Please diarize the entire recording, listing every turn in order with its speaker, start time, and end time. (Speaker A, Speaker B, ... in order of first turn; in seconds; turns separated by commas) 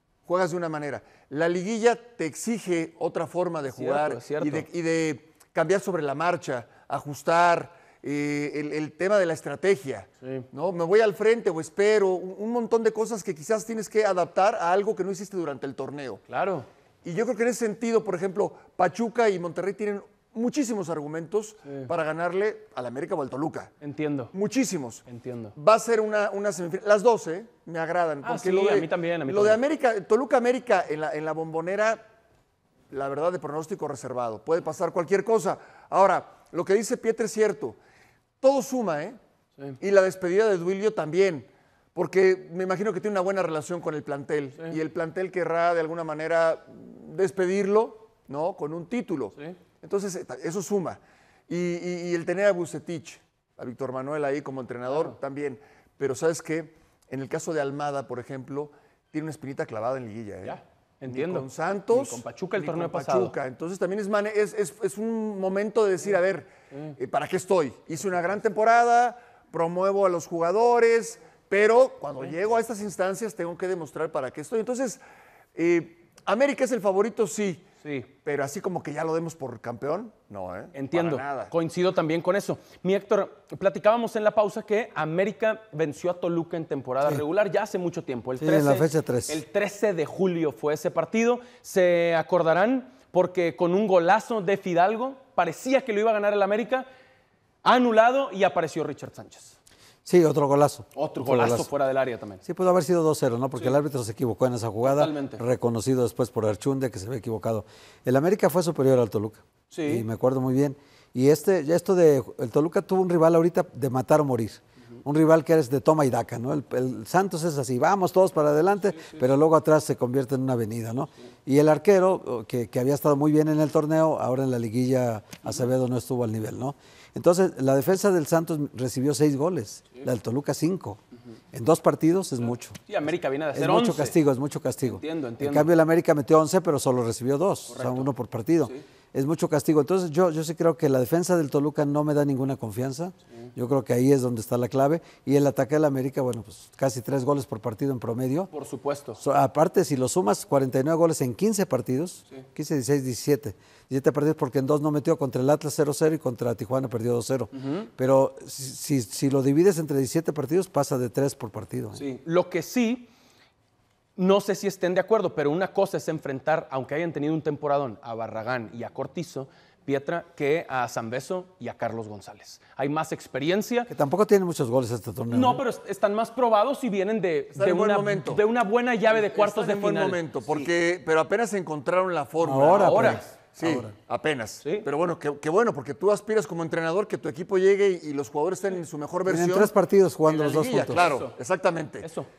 Speaker A: 0.3-16.2, Speaker B: 3.7-4.7, Speaker B: 16.3-16.7, Speaker A: 17.0-23.7, Speaker B: 23.8-24.3, Speaker A: 24.3-32.0, Speaker B: 25.1-25.5, Speaker B: 28.2-29.6, Speaker A: 32.9-37.8, Speaker A: 38.4-39.2, Speaker A: 39.8-75.0, Speaker B: 54.9-55.2, Speaker B: 60.4-63.4, Speaker A: 75.5-77.7, Speaker B: 77.8-78.1, Speaker A: 78.2-81.5, Speaker B: 80.7-96.9, Speaker C: 88.4-89.4, Speaker B: 97.6-99.5, Speaker C: 100.0-101.7, Speaker B: 101.0-102.4, Speaker C: 102.4-131.0, Speaker B: 104.8-105.4, Speaker B: 109.7-110.0, Speaker C: 131.5-132.8, Speaker B: 132.9-134.2, Speaker C: 133.5-148.5, Speaker B: 134.8-135.7, Speaker B: 137.7-138.1, Speaker B: 148.5-149.2, Speaker C: 149.2-162.1, Speaker B: 157.5-157.9, Speaker B: 162.0-163.1, Speaker B: 164.2-173.9, Speaker C: 173.9-175.6, Speaker B: 175.3-180.3, Speaker A: 177.5-178.4, Speaker A: 179.1-189.7, Speaker C: 182.4-183.9, Speaker B: 182.7-183.3, Speaker C: 189.3-191.1, Speaker A: 190.3-192.1, Speaker B: 190.7-191.4, Speaker B: 192.0-192.3